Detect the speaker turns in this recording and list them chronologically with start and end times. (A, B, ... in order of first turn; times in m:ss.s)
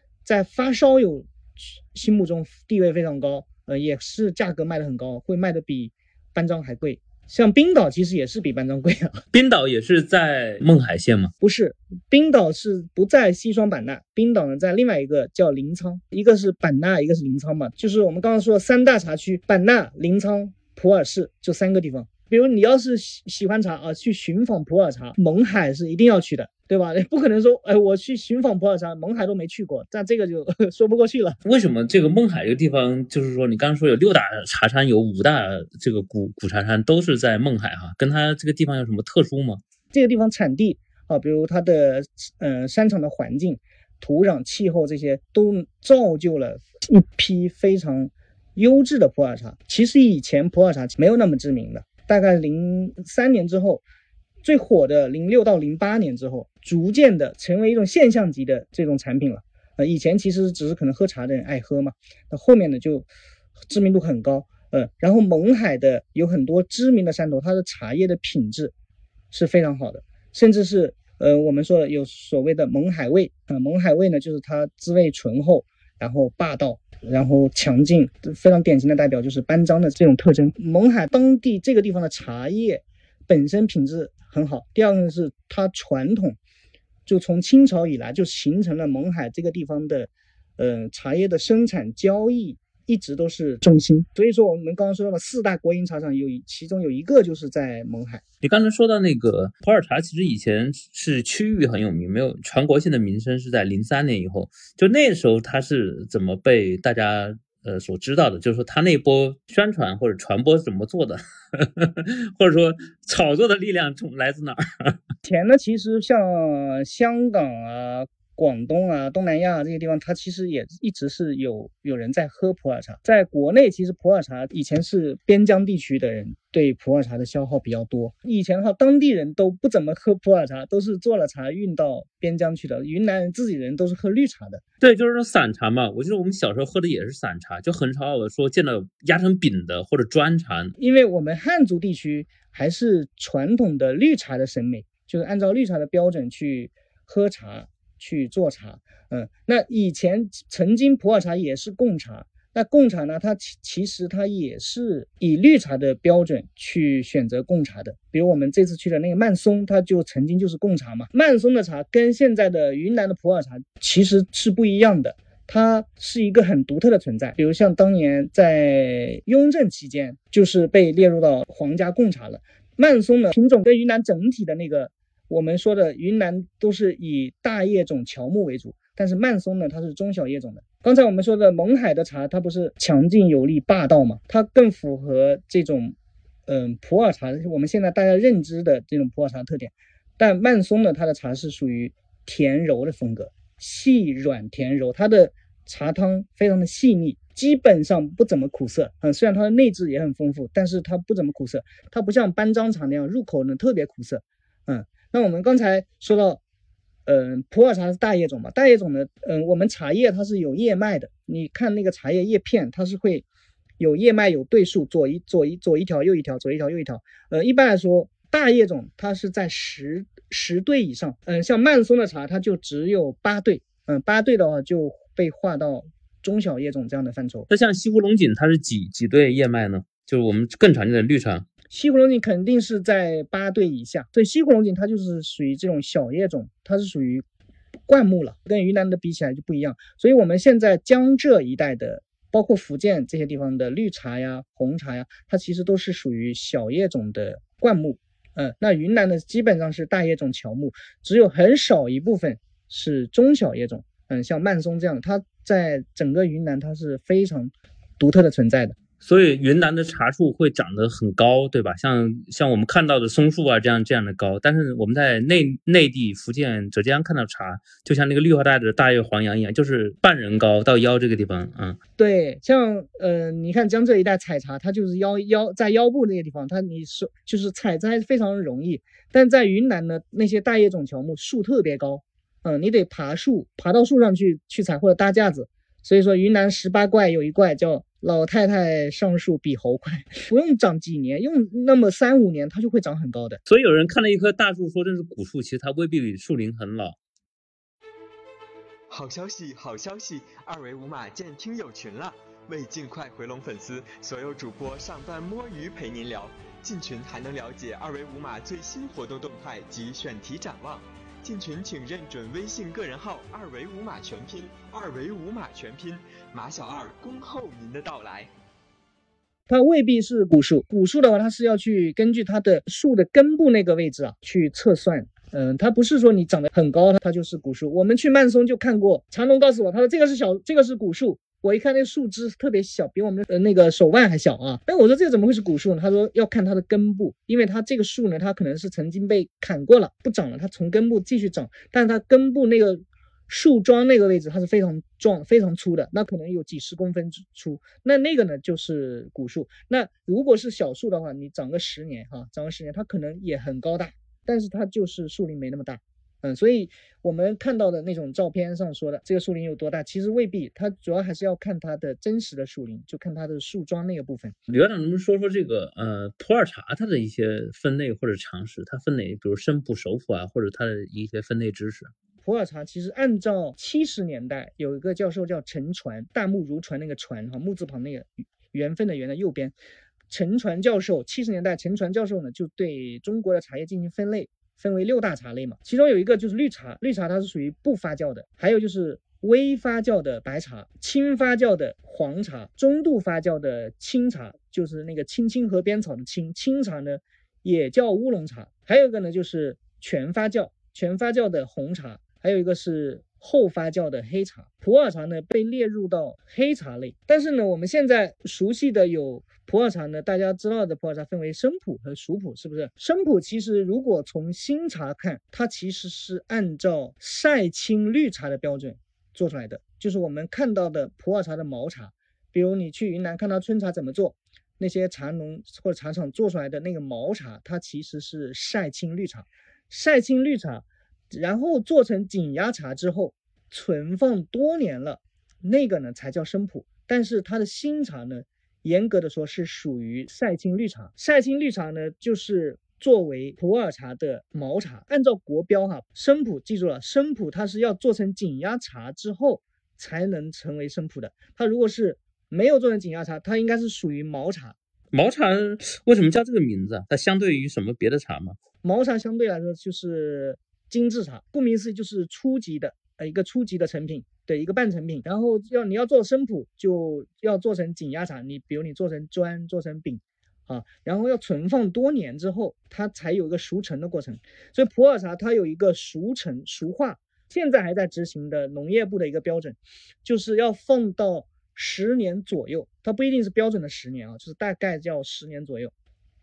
0:00.2-0:09.2 A
0:09.3-0:11.3 B
0:11.4-0:31.4 A
0:31.4-0:39.6 B
0:39.9-0:53.8 A
0:54.4-1:03.1 A
1:03.7-1:08.7 A
1:09.3-1:26.4 A
1:27.0-1:38.2 A
1:38.4-1:55.0 B
1:55.2-2:14.6 A
2:14.8-2:20.8 B
2:20.8-3:05.9 A
3:06.5-3:26.4 A
3:27.0-3:33.2 A
3:33.8-3:47.5 A
3:47.5-3:51.5 B
3:51.7-3:57.2 A
3:57.9-4:18.8 A
4:19.0-4:31.8 B
4:32.0-4:53.4 A
4:53.4-4:57.0 B
4:58.9-5:18.3 C
5:19.5-6:04.4 A
6:04.5-6:11.9 B
6:12.2-6:19.5 A
6:20.1-7:34.6 A
7:34.9-7:38.4 B
7:38.6-8:05.7 A